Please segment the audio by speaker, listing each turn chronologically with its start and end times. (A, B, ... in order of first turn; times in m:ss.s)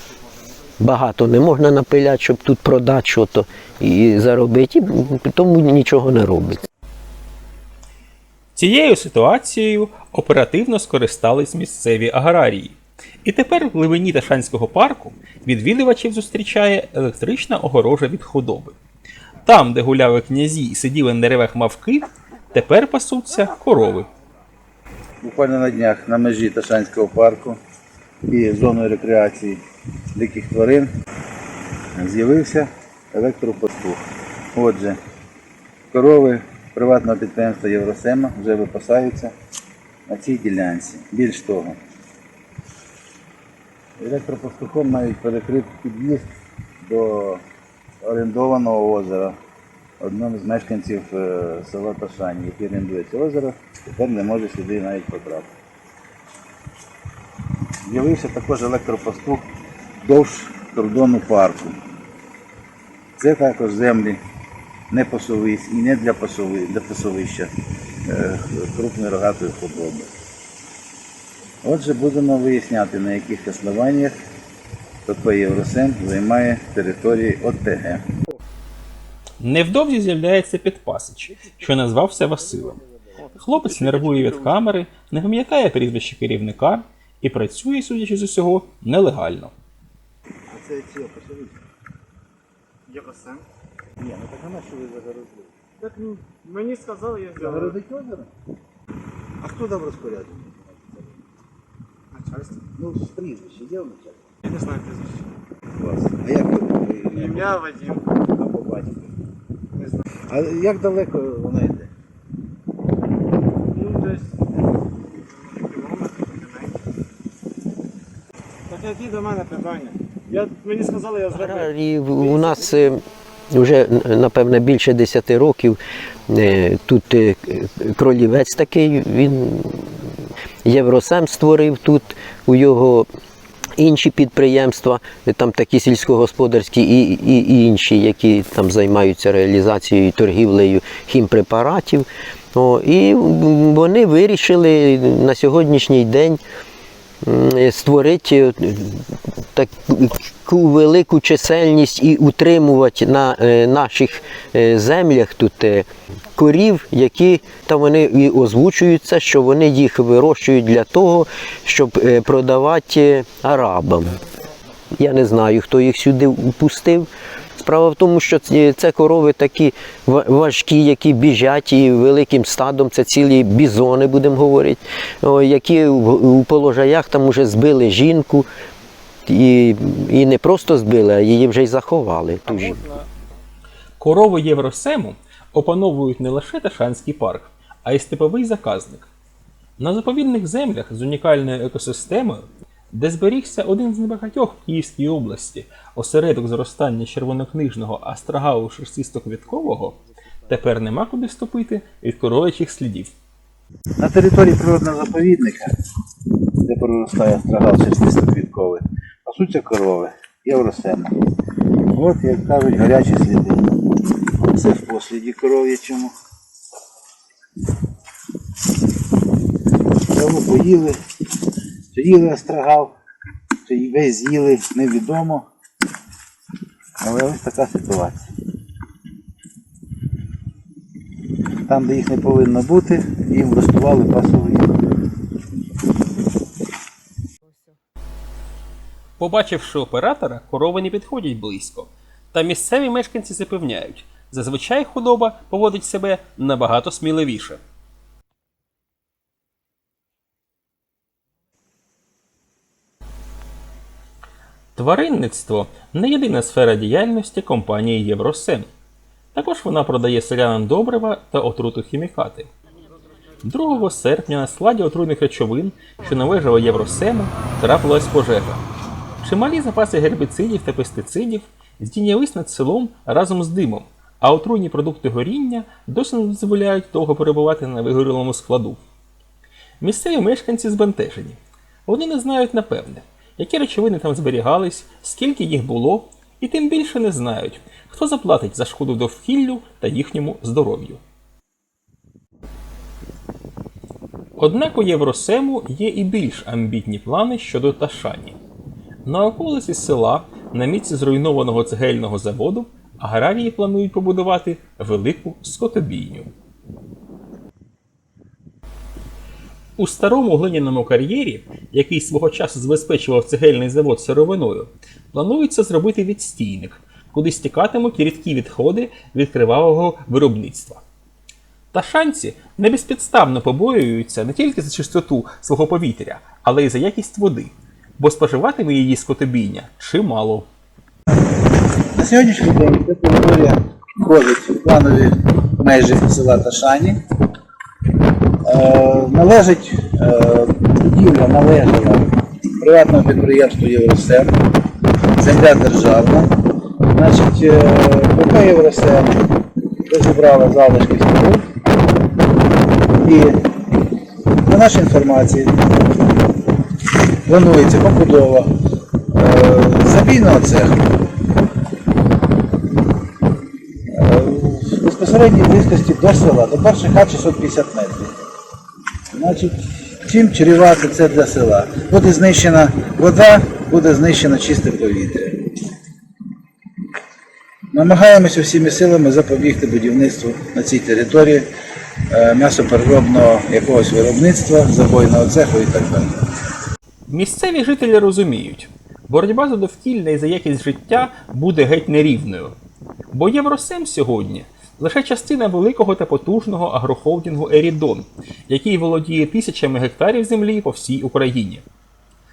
0:00.8-0:06.6 A
0:08.5-0:18.8 B
0:19.4-0:24.1 B
0:25.2-0:27.6 C
0:28.3-0:29.6 C
0:30.1-0:30.9 C
0:32.0-0:34.0 C
0:34.5-0:35.0 C
0:35.9-0:39.3 C
0:40.1-0:41.8 C
0:44.0-0:46.3 C
0:46.8-0:47.4 C
0:48.0-0:49.3 C
0:50.0-0:55.5 C
0:57.8-0:59.4 C
1:00.0-1:01.8 C
1:03.2-1:04.2 C
1:04.9-1:07.5 C
1:08.0-1:10.1 C
1:11.6-1:14.1 C
1:15.0-1:18.1 C
1:19.4-1:22.8 B
1:22.5-1:24.3 C
1:23.3-1:29.5 B
1:30.5-1:31.6 C
1:32.9-1:33.4 D
1:34.0-1:35.5 C
1:35.8-1:37.8 D
1:37.4-1:38.3 C
1:39.4-1:41.2 C
1:42.2-1:42.6 D
1:42.7-1:44.3 C
1:44.5-1:45.2 D
1:45.8-1:49.1 C
1:47.1-1:48.0 D
1:49.8-1:50.0 D
1:50.3-1:51.9 C
1:53.7-1:54.3 D
1:55.3-1:56.8 D
1:58.7-2:01.7 D
2:01.3-2:10.1 A
2:02.2-2:02.6 D
2:10.6-2:13.1 A
2:13.7-2:26.4 A
2:27.2-2:44.2 A
2:45.0-2:47.1 A
2:47.6-2:58.5 A
2:59.2-3:02.8 A
3:02.5-3:03.1 B
3:04.0-3:09.1 B
3:09.8-3:23.1 B
3:24.0-3:25.7 C
3:26.6-3:31.2 C
3:31.9-3:33.8 C
3:34.4-3:36.1 C
3:40.1-3:41.0 C
3:41.9-3:42.9 C
3:43.6-3:45.5 C
3:47.0-3:48.3 C
3:51.7-3:54.7 C
3:59.2-4:07.6 B
4:14.8-4:18.7 B
4:19.3-4:22.5 B
4:23.4-4:28.6 B
4:29.2-4:38.8 B
4:39.8-4:51.0 B
4:54.4-4:58.4 B
4:59.0-5:06.3 B
5:09.8-5:20.8 B
5:21.7-5:30.5 B
5:32.0-5:37.0 C
5:38.4-5:44.3 C
5:45.2-5:46.3 C
5:46.9-5:49.1 C
5:49.9-5:51.4 C
5:53.0-5:53.4 C
5:54.4-5:55.6 C
5:57.2-5:58.5 C
5:59.1-6:00.8 C
6:03.9-6:08.1 C
6:09.1-6:15.5 C
6:17.7-6:21.5 C
6:22.1-6:26.2 C
6:27.1-6:32.5 B
6:33.1-6:41.6 B